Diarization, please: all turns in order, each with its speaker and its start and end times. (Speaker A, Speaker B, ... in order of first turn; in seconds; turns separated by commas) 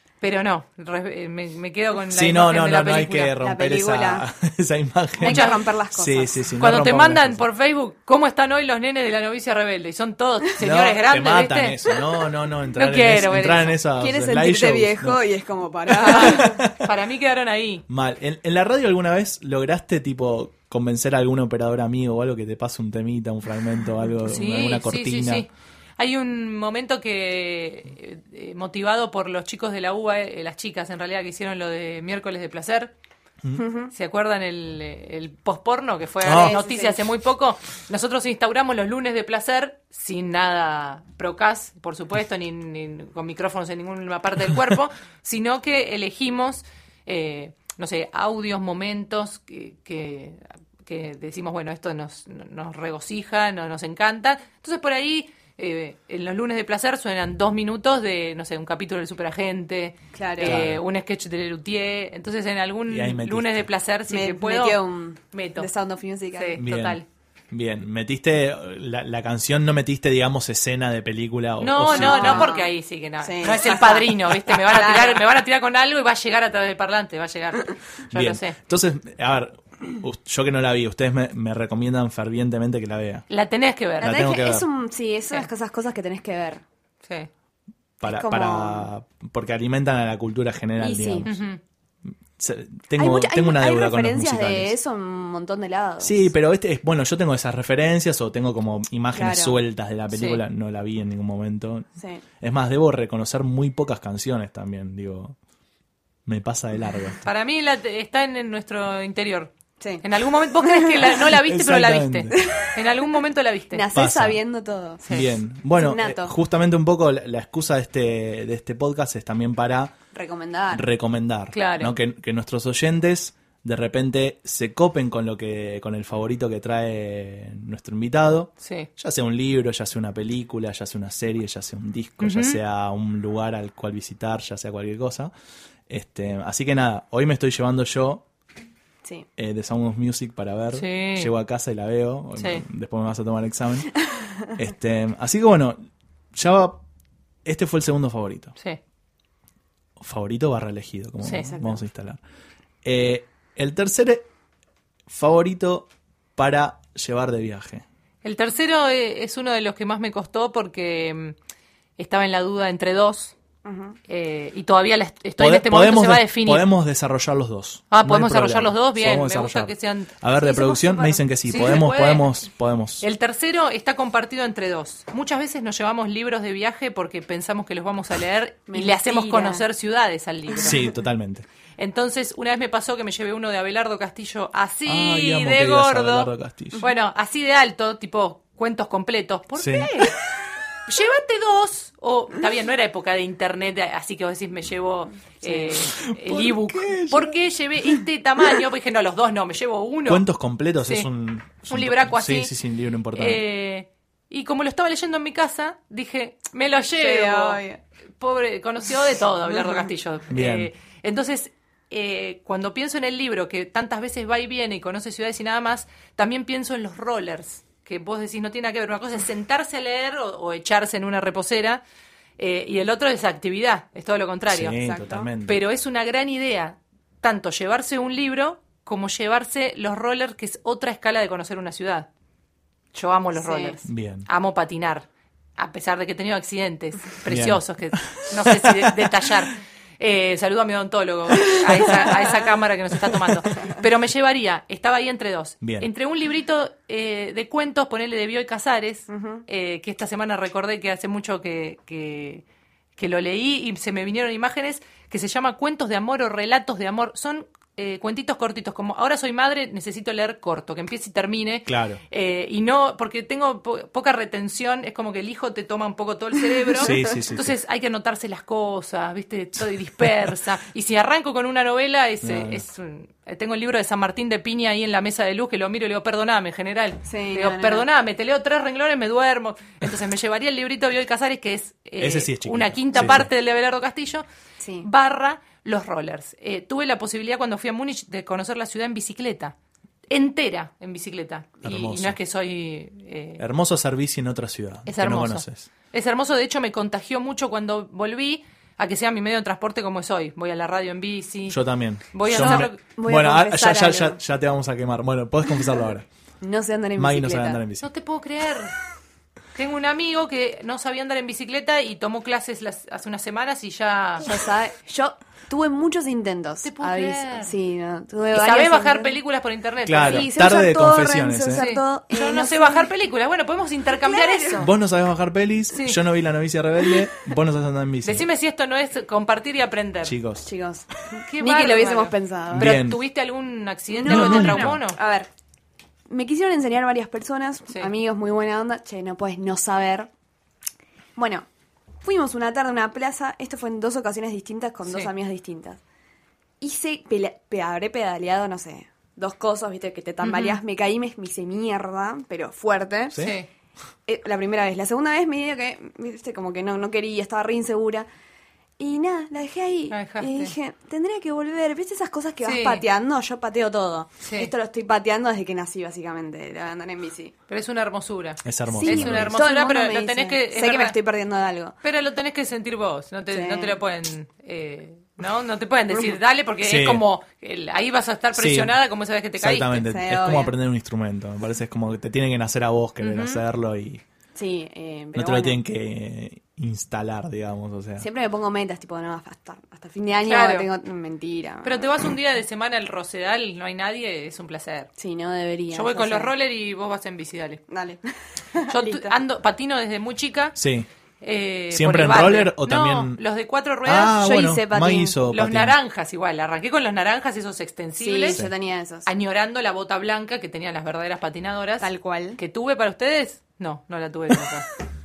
Speaker A: 0.2-3.3, Speaker B: 2.1-7.4, Speaker C: 3.4-4.2, Speaker C: 5.2-6.4, Speaker A: 5.2-5.6, Speaker A: 6.6-11.8, Speaker B: 10.6-15.2, Speaker A: 12.7-13.8, Speaker C: 14.0-16.5, Speaker B: 15.9-16.7, Speaker A: 16.0-17.8, Speaker B: 17.9-25.5, Speaker A: 24.2-32.9, Speaker C: 33.6-33.9, Speaker A: 33.9-64.8, Speaker B: 36.2-36.5, Speaker C: 36.2-37.0, Speaker C: 60.1-60.6, Speaker B: 60.4-60.8, Speaker B: 62.9-63.7, Speaker C: 64.1-66.6, Speaker A: 65.3-65.7, Speaker A: 66.3-67.0, Speaker B: 66.5-67.0, Speaker B: 67.5-72.5, Speaker A: 71.6-78.6, Speaker C: 71.9-72.7, Speaker C: 73.2-75.2, Speaker B: 78.1-83.2, Speaker A: 83.3-84.2, Speaker B: 84.0-84.7, Speaker C: 84.0-86.6, Speaker B: 88.0-91.4, Speaker C: 88.0-88.9, Speaker C: 90.8-91.3, Speaker A: 91.2-91.6, Speaker B: 92.4-94.7, Speaker C: 93.0-96.3, Speaker B: 96.0-101.9, Speaker C: 99.1-99.6, Speaker A: 100.1-100.4, Speaker C: 102.0-102.2, Speaker B: 102.4-105.3, Speaker B: 106.2-107.3, Speaker A: 107.2-109.5, Speaker A: 110.0-113.8, Speaker C: 110.6-111.2, Speaker B: 111.3-112.5, Speaker C: 112.4-112.7, Speaker C: 113.7-115.0, Speaker B: 113.9-114.4, Speaker B: 115.1-119.9, Speaker C: 115.7-116.3, Speaker C: 120.1-120.9, Speaker B: 120.7-135.3, Speaker A: 121.5-121.9, Speaker A: 128.6-128.9, Speaker A: 132.2-132.6, Speaker B: 135.9-138.2, Speaker B: 139.4-143.9, Speaker A: 140.7-141.3, Speaker A: 142.4-142.6, Speaker B: 144.5-145.8, Speaker B: 146.3-146.8, Speaker B: 147.4-148.5, Speaker B: 150.0-152.2, Speaker A: 151.2-151.6, Speaker B: 152.8-154.3, Speaker B: 155.1-157.8, Speaker A: 158.2-161.3, Speaker A: 162.0-163.3, Speaker C: 163.6-163.9, Speaker A: 164.1-166.7, Speaker B: 165.4-173.0, Speaker A: 167.9-170.1, Speaker C: 170.4-171.8, Speaker A: 171.5-172.3, Speaker A: 173.0-180.8, Speaker C: 178.7-179.6, Speaker B: 180.6-181.4, Speaker A: 181.8-190.1, Speaker B: 184.8-186.8, Speaker B: 189.6-189.9, Speaker A: 190.9-200.2, Speaker C: 195.4-195.7, Speaker B: 195.9-197.3, Speaker B: 200.1-203.4, Speaker A: 201.7-202.5, Speaker A: 203.1-207.6, Speaker C: 206.9-207.8, Speaker A: 208.2-221.8, Speaker B: 210.3-210.7, Speaker A: 222.4-224.8, Speaker B: 224.5-225.6, Speaker C: 224.8-225.3, Speaker A: 225.4-232.1, Speaker A: 232.9-235.1, Speaker C: 233.3-233.8, Speaker B: 233.8-234.3, Speaker A: 235.6-252.4, Speaker B: 237.2-239.1, Speaker B: 245.6-245.9, Speaker C: 249.1-249.4, Speaker A: 253.0-284.2, Speaker B: 261.7-262.0, Speaker C: 266.7-267.0, Speaker B: 266.8-267.6, Speaker B: 272.2-272.6, Speaker C: 277.1-277.8, Speaker B: 282.0-283.3, Speaker C: 284.6-284.9, Speaker A: 284.8-289.5, Speaker A: 290.1-293.4, Speaker B: 291.6-292.2, Speaker B: 293.4-295.7, Speaker A: 294.9-301.6, Speaker B: 301.5-306.1, Speaker A: 302.1-302.8, Speaker C: 302.3-304.2, Speaker C: 306.4-307.6, Speaker B: 306.9-307.9, Speaker A: 307.8-308.7, Speaker A: 309.5-314.2, Speaker C: 314.2-319.2, Speaker A: 316.6-317.5, Speaker A: 318.3-320.3, Speaker B: 319.9-321.6, Speaker C: 320.0-322.9, Speaker A: 321.5-324.7, Speaker C: 324.0-324.7, Speaker B: 324.6-328.3, Speaker A: 325.7-326.0, Speaker A: 328.0-330.1, Speaker B: 330.0-330.5, Speaker C: 330.4-332.7, Speaker A: 331.3-335.0, Speaker B: 332.5-333.0, Speaker C: 333.9-335.3, Speaker B: 334.0-334.8, Speaker C: 336.1-340.1, Speaker C: 341.1-341.4, Speaker C: 342.0-345.8, Speaker C: 346.6-353.2, Speaker A: 350.2-350.6, Speaker B: 353.1-353.4, Speaker A: 353.2-353.5, Speaker C: 354.1-358.1, Speaker C: 358.8-367.3, Speaker A: 359.9-360.5, Speaker A: 362.4-362.8, Speaker A: 364.2-364.5, Speaker A: 367.5-370.9, Speaker B: 368.4-369.4, Speaker C: 368.7-371.8, Speaker A: 371.8-379.8, Speaker C: 373.3-373.8, Speaker B: 376.6-377.0, Speaker B: 378.3-378.8, Speaker B: 379.4-384.0, Speaker C: 379.8-380.5, Speaker A: 383.0-383.4, Speaker C: 384.3-385.6, Speaker B: 385.1-388.1, Speaker C: 388.0-391.9, Speaker A: 390.2-390.7, Speaker A: 391.6-394.9, Speaker C: 395.0-396.3, Speaker A: 395.7-397.6, Speaker C: 397.7-399.1, Speaker A: 398.6-400.6, Speaker B: 400.6-400.9, Speaker A: 401.2-404.2, Speaker B: 401.7-403.2, Speaker B: 403.8-405.8, Speaker C: 404.1-405.2, Speaker A: 405.3-408.4, Speaker C: 408.0-409.1, Speaker A: 409.0-414.7, Speaker C: 411.8-412.4